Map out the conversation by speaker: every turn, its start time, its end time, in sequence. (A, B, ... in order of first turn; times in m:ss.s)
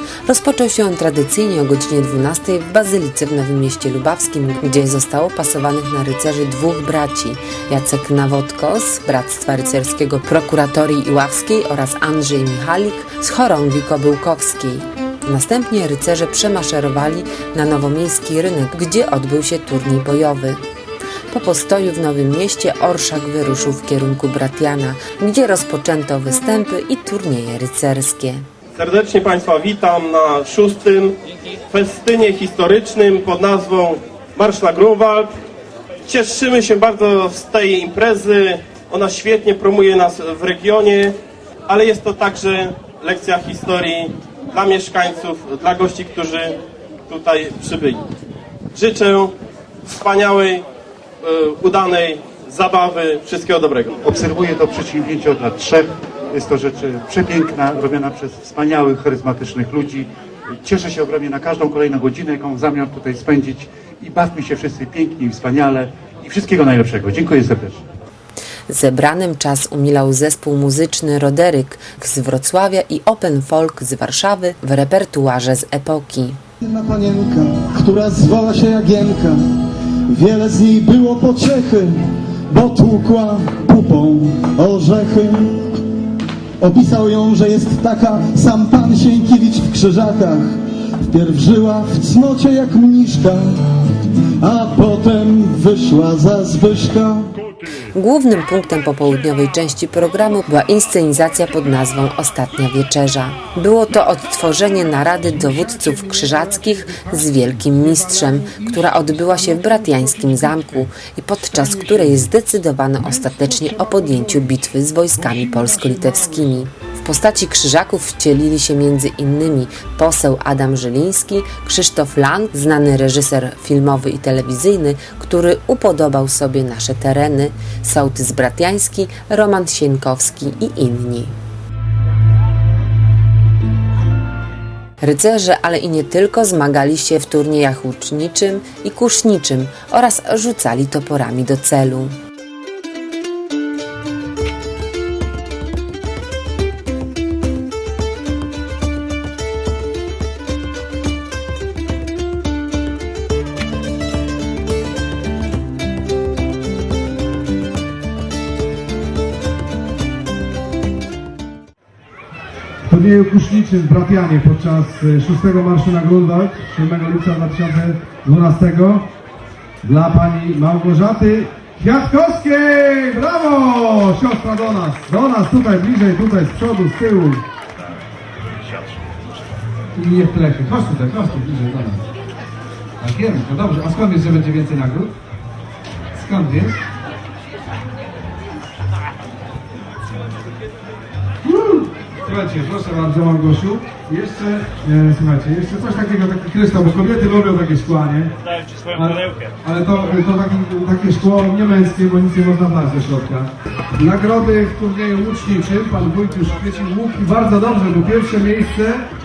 0:00.2-0:20.6 A
0:21.3-0:28.4 A
0:28.8-0:31.2 B
0:31.7-0:35.3 B
0:36.1-0:41.2 B
0:41.7-0:48.0 B
0:48.7-0:49.3 B
0:49.8-0:50.6 B
0:51.2-0:54.0 B
0:54.0-1:00.1 C
1:00.6-1:07.8 C
1:08.7-1:16.4 A
1:16.6-1:25.9 D
1:26.6-1:37.4 D
1:37.9-2:11.3 A
1:46.0-1:46.5 E
1:48.3-1:49.0 E
1:53.4-1:54.1 E
1:55.3-1:56.3 E
2:15.0-2:22.1 A
2:42.9-2:49.1 E
2:49.8-2:57.4 E
3:00.0-3:02.0 E
3:03.0-3:05.2 E
3:06.1-3:06.8 E
3:11.4-3:18.3 E
3:18.9-3:29.1 E